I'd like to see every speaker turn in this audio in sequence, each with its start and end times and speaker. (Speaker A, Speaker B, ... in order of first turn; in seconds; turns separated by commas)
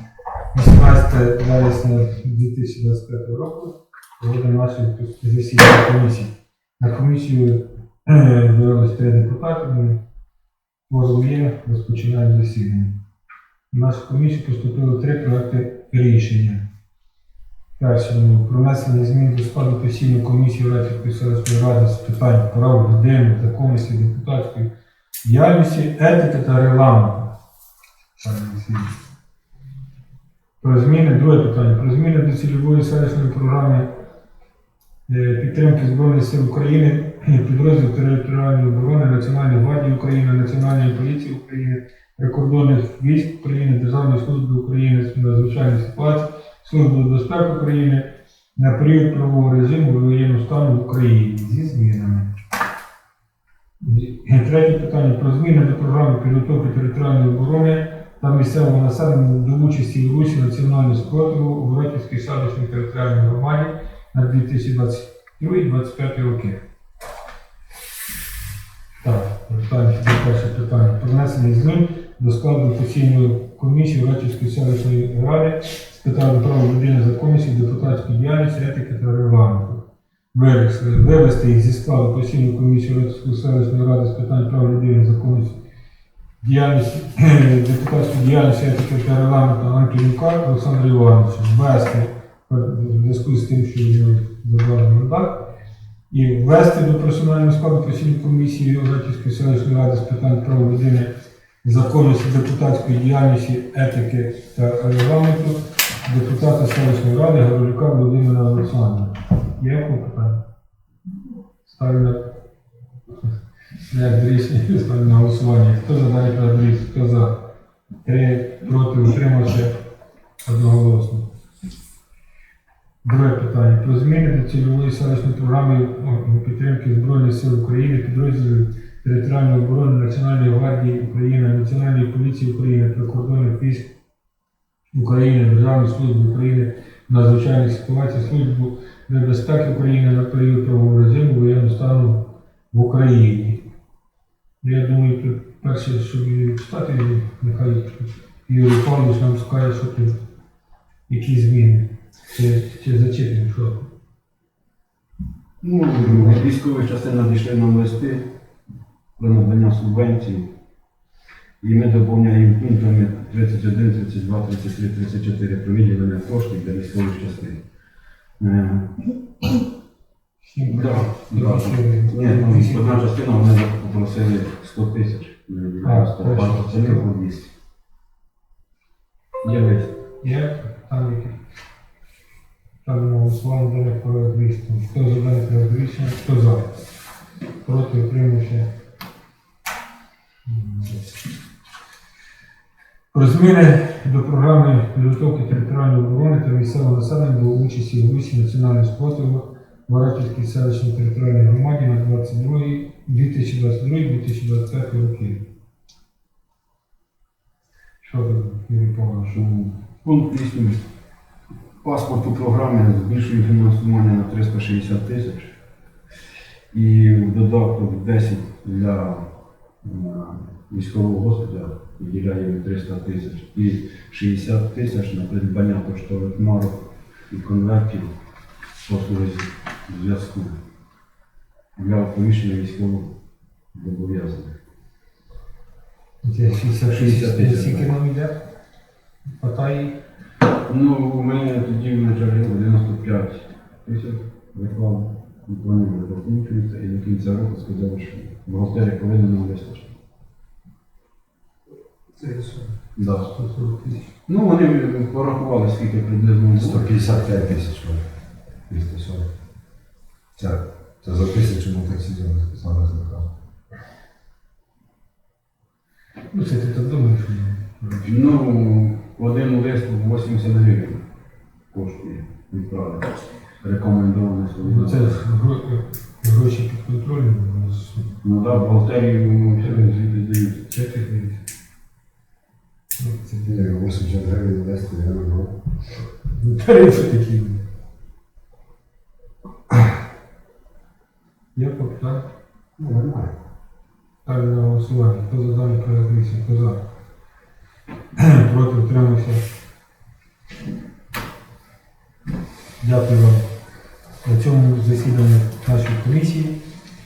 Speaker A: 0.5-10.0, Speaker A: 10.9-12.9, Speaker A: 13.7-16.6, Speaker A: 17.8-24.7, Speaker A: 25.2-27.3, Speaker A: 28.2-28.9, Speaker A: 30.6-33.9, Speaker A: 35.1-52.3, Speaker A: 53.8-66.6, Speaker A: 69.0-79.8, Speaker A: 80.3-85.6, Speaker A: 86.4-95.4, Speaker A: 96.1-101.1, Speaker A: 101.6-110.4, Speaker A: 111.7-112.3, Speaker A: 113.9-117.3, Speaker A: 118.0-119.7, Speaker A: 120.4-121.2, Speaker A: 123.0-133.9, Speaker A: 134.9-143.6, Speaker A: 144.6-150.2, Speaker A: 151.1-153.9, Speaker B: 155.6-158.3, Speaker A: 156.0-156.4, Speaker B: 159.2-160.5, Speaker B: 161.6-167.6, Speaker B: 168.4-169.1, Speaker A: 170.4-173.0, Speaker B: 170.7-177.5, Speaker A: 175.8-177.1, Speaker B: 179.4-180.0, Speaker A: 180.2-181.4, Speaker A: 182.8-186.7, Speaker A: 187.6-188.7, Speaker A: 190.5-191.0, Speaker A: 193.1-205.4, Speaker A: 208.0-209.4, Speaker B: 209.3-210.8, Speaker B: 211.8-215.6, Speaker B: 216.7-219.2, Speaker B: 219.8-228.1, Speaker B: 228.8-230.6, Speaker B: 231.8-233.1, Speaker B: 233.7-234.6, Speaker A: 236.2-238.4, Speaker B: 236.8-237.9, Speaker A: 239.3-240.0, Speaker B: 240.7-249.9, Speaker A: 252.2-252.7, Speaker B: 253.0-253.3, Speaker A: 253.3-254.1, Speaker B: 254.3-256.9, Speaker C: 256.6-258.1, Speaker C: 258.7-259.3, Speaker C: 260.4-263.3, Speaker A: 266.3-268.1, Speaker B: 268.0-271.0, Speaker B: 271.7-275.3, Speaker A: 274.6-278.1, Speaker B: 278.2-280.7, Speaker A: 280.7-281.4, Speaker A: 283.0-283.7, Speaker C: 283.4-285.6, Speaker A: 286.2-287.6, Speaker A: 291.6-292.3, Speaker C: 292.8-293.3, Speaker A: 294.2-296.8, Speaker A: 298.2-299.4, Speaker A: 302.8-303.4, Speaker A: 304.2-306.6